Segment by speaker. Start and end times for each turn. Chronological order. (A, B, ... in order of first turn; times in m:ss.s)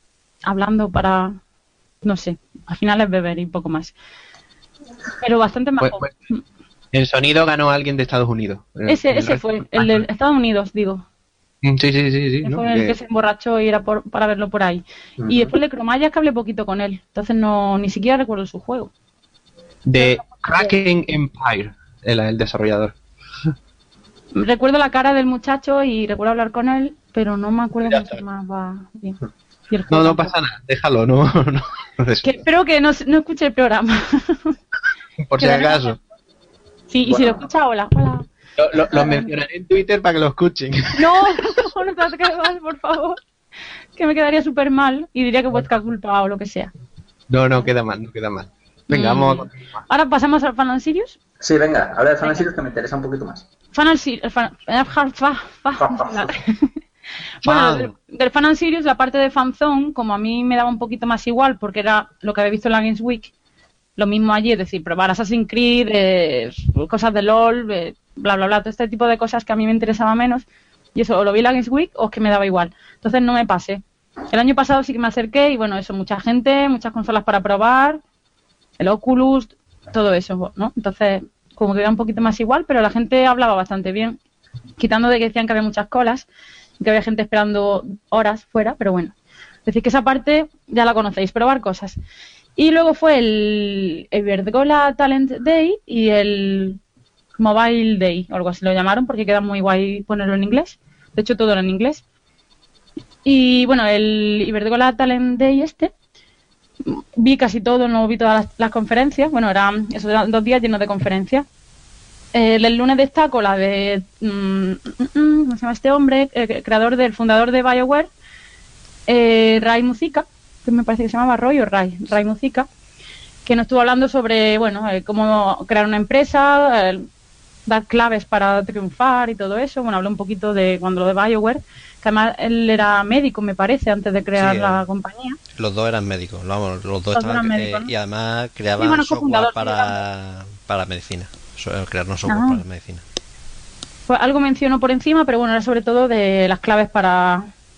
0:00.4-0:01.4 A
0:02.0-0:03.9 A
0:05.2-0:06.4 A
0:05.8-0:06.1 B
0:06.9-0:10.0 B
0:08.9-0:11.0 A
0:11.6-0:13.0 B
0:12.4-0:18.9 A
0:15.2-0:15.5 C
0:19.8-0:23.0 B
0:20.0-0:20.8 A
0:24.3-0:30.3 A
0:27.9-0:28.2 B
0:29.9-0:32.3 B
0:32.2-0:34.6 A
0:35.3-0:36.0 B
0:35.4-0:36.0 A
0:36.9-0:38.2 A
0:37.0-0:37.4 C
0:38.6-0:41.5 B
0:38.9-0:39.3 A
0:41.0-0:43.2 A
0:44.0-0:46.7 A
0:47.3-0:49.8 B
0:48.9-0:51.2 A
0:51.4-0:53.4 C
0:53.7-0:56.7 A
0:55.8-0:56.3 C
0:57.4-1:03.3 A
0:57.4-0:57.9 B
1:04.0-1:18.0 A
1:18.8-1:24.2 A
1:24.8-1:26.3 A
1:26.8-1:29.1 A
1:29.6-1:32.0 A
1:32.6-1:36.8 A
1:37.4-1:42.0 A
1:43.2-1:45.9 A
1:46.8-1:51.4 A
1:52.3-1:58.1 A
1:59.1-2:02.7 A
2:03.4-2:07.1 A
2:07.6-2:15.4 A
2:14.4-2:14.8 D
2:15.6-2:23.0 D
2:17.1-2:17.9 A
2:18.8-2:19.9 A
2:22.3-2:22.6 A
2:24.1-2:27.5 A